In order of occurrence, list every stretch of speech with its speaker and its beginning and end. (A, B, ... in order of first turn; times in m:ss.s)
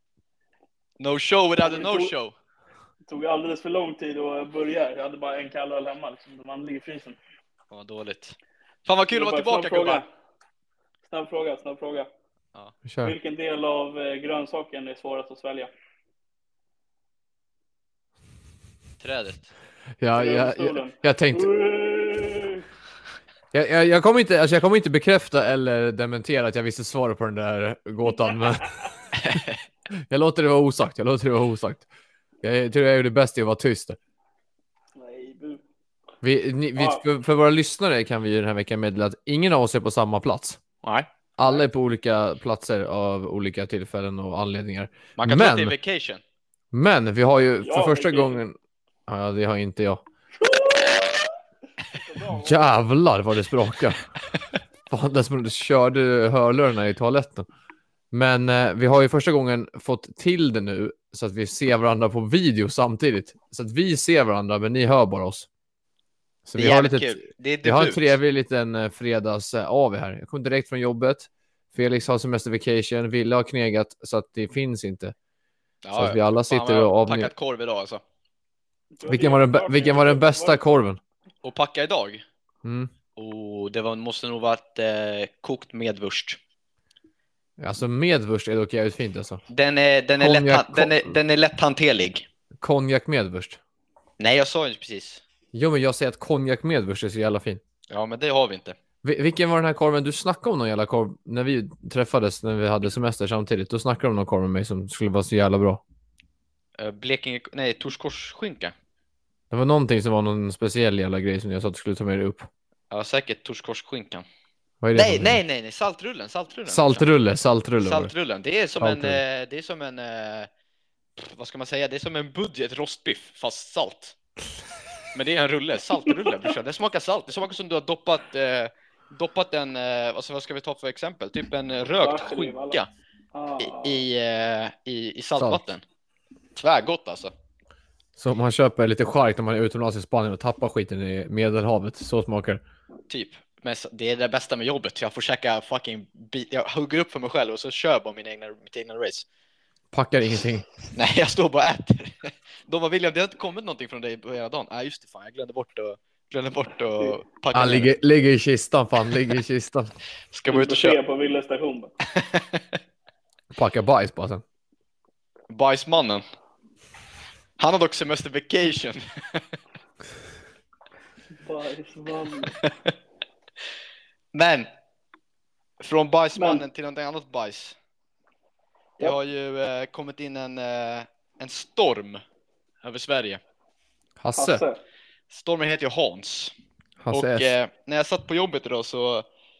0:01.0-0:02.3 A
0:01.6-0:02.1 B
0:03.1-0:07.2 B
0:07.7-0:10.0 A
0:09.1-0:10.1 B
0:11.0-0:12.1 B
0:12.8-0:13.1 C
0:13.0-0:15.7 B
0:19.0-0:19.5 A
0:20.0-0:21.5 C
0:20.1-0:22.6 B
0:23.5-0:29.4 C
0:29.2-0:29.6 A
0:29.9-0:31.8 C
0:32.4-0:34.0 C
0:34.9-0:35.6 B
0:36.2-0:40.6 C
0:36.8-0:37.0 B
0:41.4-0:45.7 C
0:45.2-0:46.2 A
0:46.7-0:48.6 C
0:47.6-0:48.4 B
0:49.1-0:50.0 C
0:50.4-0:52.6 B
0:52.3-0:54.1 C
0:54.9-0:57.5 C
0:58.1-1:05.5 C
1:06.4-1:15.1 C
1:06.6-1:08.2 A
1:15.8-1:18.0 A
1:15.9-1:17.3 C
1:18.9-1:20.7 B
1:19.0-1:21.0 C
1:21.4-1:22.2 A
1:22.6-1:22.9 C
1:23.2-1:26.4 A
1:27.6-1:29.4 C
1:29.5-1:32.2 A
1:30.2-1:31.1 C
1:32.6-1:33.6 C
1:34.2-1:35.2 A
1:35.5-1:37.6 C
1:37.9-1:38.7 A
1:39.0-1:45.8 C
1:46.8-1:48.7 A
1:49.5-1:52.5 C
1:52.9-1:54.2 A
1:54.8-1:55.4 C
1:55.0-1:57.0 A
1:56.7-1:58.1 C
1:57.8-2:00.5 A
1:58.8-1:59.2 C
2:01.2-2:04.2 A
2:05.1-2:12.9 A
2:12.0-2:12.8 B
2:13.3-2:14.0 B
2:13.6-2:15.8 A
2:16.6-2:17.3 A
2:18.2-2:22.6 C
2:23.1-2:29.2 A
2:29.9-2:30.7 C
2:30.9-2:37.9 A
2:37.5-2:39.9 C
2:40.3-2:41.0 A
2:40.5-2:41.9 B
2:42.1-2:42.6 A
2:43.5-2:44.4 C
2:45.5-2:46.2 A
2:47.6-2:49.4 A
2:51.4-2:52.6 B
2:54.3-2:54.7 A
2:55.8-2:57.7 A
2:56.3-2:56.6 B
2:59.0-3:02.2 A
3:02.8-3:03.4 A
3:04.2-3:04.6 C
3:04.4-3:04.8 B
3:05.3-3:06.5 A
3:07.0-3:07.5 C
3:07.1-3:09.2 A